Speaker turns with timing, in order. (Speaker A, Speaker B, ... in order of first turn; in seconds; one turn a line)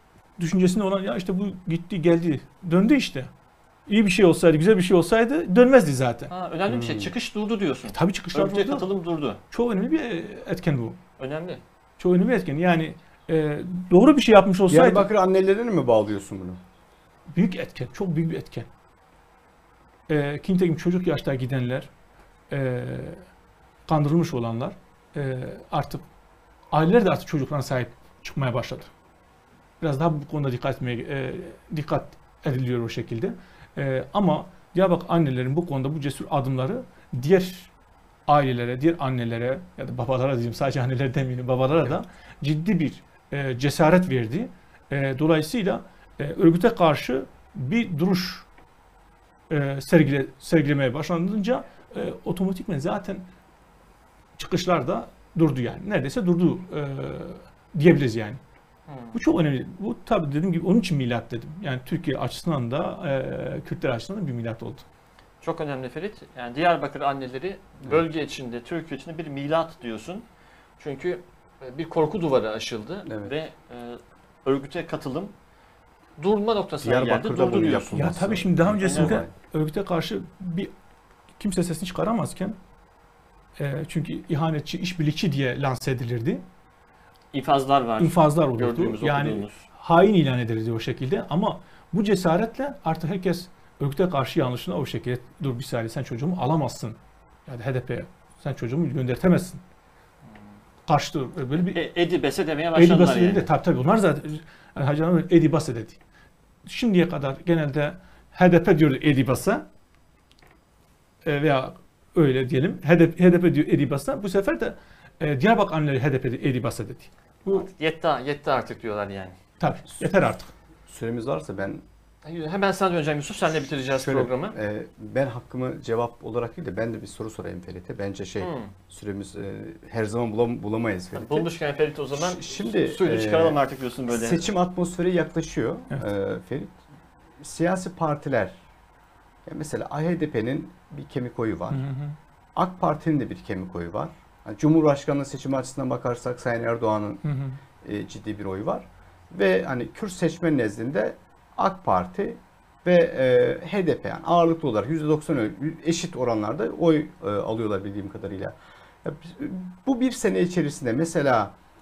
Speaker A: 0.4-3.3
Speaker A: 3.9-6.3
Speaker B: 6.3-9.4
Speaker C: 6.7-7.1
Speaker A: 7.9-8.9
Speaker A: 9.5-11.0
Speaker B: 11.2-11.6
Speaker A: 12.0-15.1
Speaker C: 14.7-16.6
Speaker A: 17.3-18.7
Speaker A: 20.1-21.9
Speaker A: 22.5-23.2
Speaker A: 23.9-26.1
Speaker A: 26.7-28.9
Speaker A: 29.8-37.7
Speaker A: 38.3-48.5
Speaker A: 49.5-53.3
Speaker A: 54.4-58.4
Speaker B: 58.9-59.2
Speaker A: 59.1-64.8
Speaker B: 65.4-70.2
Speaker B: 70.8-75.3
Speaker C: 73.0-73.4
Speaker B: 76.2-78.2
Speaker C: 76.8-79.3
Speaker A: 77.9-80.7
Speaker B: 78.8-79.2
Speaker A: 81.4-82.6
Speaker A: 83.6-86.4
Speaker B: 87.3-89.7
Speaker A: 88.0-99.6
Speaker A: 100.9-101.8
Speaker B: 101.7-103.5
Speaker A: 102.7-106.0
Speaker A: 106.7-109.6
Speaker A: 111.2-117.7
Speaker B: 117.5-119.4
Speaker A: 119.6-120.5
Speaker C: 120.9-121.8
Speaker B: 122.2-124.5
Speaker C: 124.0-131.5
Speaker B: 128.4-128.7
Speaker B: 131.1-134.5
Speaker C: 132.1-136.7
Speaker C: 137.4-138.6
Speaker C: 139.4-141.8
Speaker A: 141.7-142.2
Speaker C: 142.6-147.2
Speaker A: 147.2-147.6
Speaker C: 147.8-161.6